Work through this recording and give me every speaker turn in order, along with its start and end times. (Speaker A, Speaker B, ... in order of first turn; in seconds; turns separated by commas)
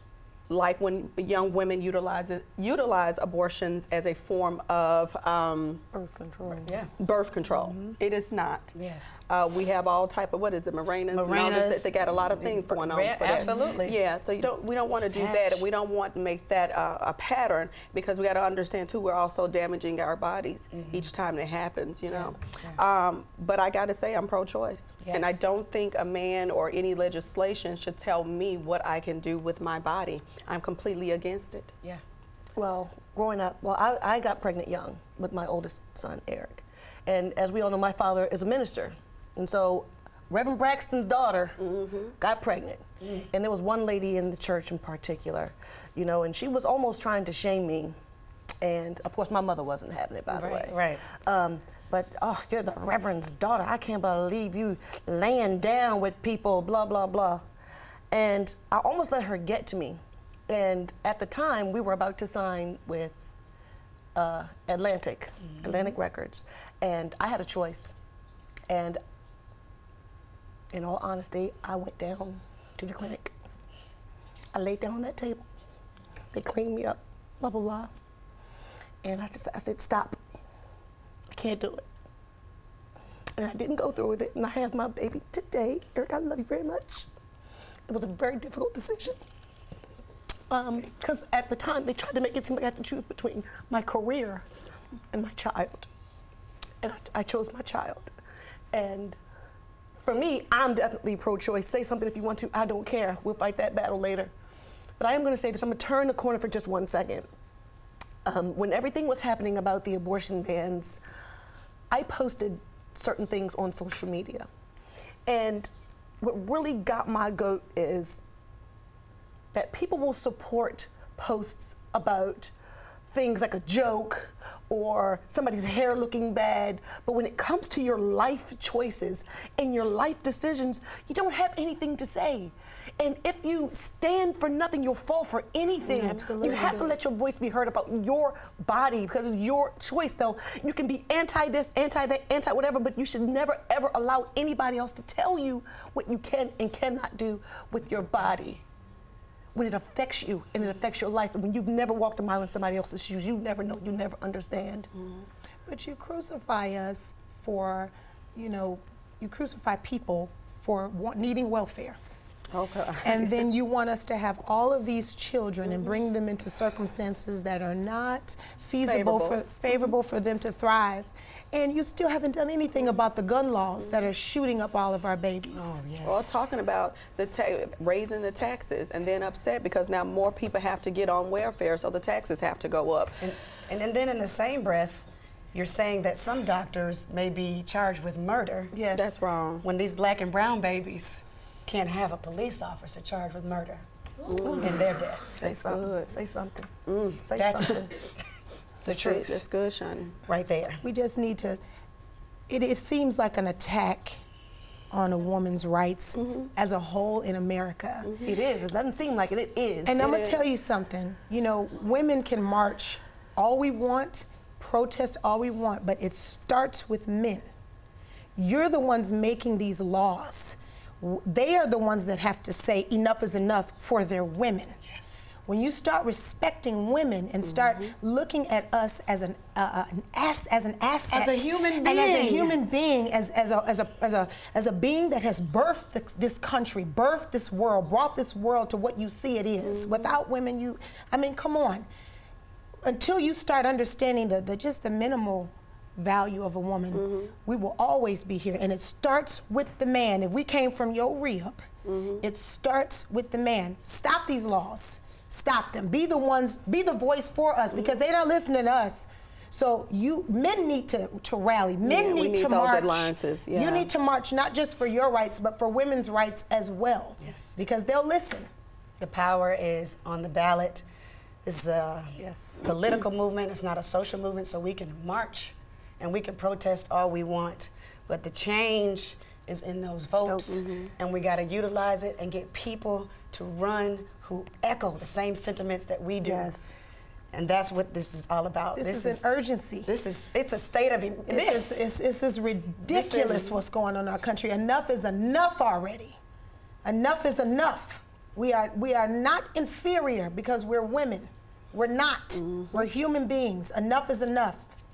Speaker A: 0.5-5.8, Speaker B: 5.9-6.7, Speaker C: 6.7-6.9, Speaker A: 7.0-8.7, Speaker C: 7.7-8.0, Speaker C: 8.7-9.2, Speaker A: 9.3-31.8, Speaker C: 11.1-14.0, Speaker C: 15.1-15.7, Speaker C: 20.7-21.1, Speaker C: 22.1-22.8, Speaker C: 25.0-25.4, Speaker B: 32.6-48.0, Speaker B: 48.6-57.4, Speaker C: 50.3-51.0, Speaker B: 58.1-63.3, Speaker B: 64.2-67.9, Speaker B: 68.7-69.0, Speaker B: 70.7-73.3, Speaker B: 74.5-75.5, Speaker B: 76.3-77.9, Speaker B: 79.0-80.2, Speaker B: 81.3-81.8, Speaker B: 83.4-87.1, Speaker B: 87.9-89.2, Speaker B: 90.5-94.5, Speaker B: 95.1-95.9, Speaker B: 96.8-98.1, Speaker B: 98.7-99.2, Speaker B: 100.0-104.3, Speaker B: 105.0-107.3, Speaker B: 108.2-111.0, Speaker B: 111.9-114.5, Speaker B: 115.3-118.2, Speaker B: 119.5-122.5, Speaker B: 123.1-148.6, Speaker A: 135.9-136.9, Speaker D: 135.9-136.8, Speaker B: 149.5-154.9, Speaker A: 155.0-155.3, Speaker D: 155.7-162.0, Speaker A: 162.5-163.4, Speaker D: 163.0-175.8, Speaker A: 168.8-169.9, Speaker C: 175.5-176.4, Speaker A: 176.0-183.2, Speaker C: 183.2-188.8, Speaker B: 188.7-189.2, Speaker A: 188.9-189.7, Speaker C: 189.6-193.8, Speaker A: 194.3-194.8, Speaker B: 194.4-197.9, Speaker C: 194.6-195.5, Speaker A: 195.4-196.1, Speaker A: 196.9-197.8, Speaker C: 197.3-197.8, Speaker C: 198.8-199.4, Speaker A: 198.9-200.2, Speaker C: 200.3-200.8, Speaker D: 200.8-201.6, Speaker D: 202.5-204.2, Speaker D: 204.9-208.1, Speaker A: 206.2-206.5, Speaker A: 208.0-208.3, Speaker B: 208.2-210.1, Speaker D: 209.9-217.5, Speaker A: 210.0-210.4, Speaker D: 218.4-224.8, Speaker C: 224.9-225.2, Speaker D: 225.4-241.9, Speaker C: 231.1-232.6, Speaker A: 239.6-240.2, Speaker D: 242.8-251.7, Speaker A: 246.9-247.3, Speaker A: 251.8-252.2, Speaker D: 252.2-268.5, Speaker A: 261.8-263.9, Speaker C: 267.2-267.6, Speaker C: 269.0-270.9, Speaker C: 271.4-286.6, Speaker B: 272.2-272.7, Speaker B: 280.2-280.9, Speaker B: 286.2-286.8, Speaker C: 287.3-289.2, Speaker D: 288.8-289.9, Speaker C: 289.9-291.8, Speaker D: 291.3-296.2, Speaker C: 292.9-293.6, Speaker D: 296.8-304.8, Speaker A: 302.4-302.9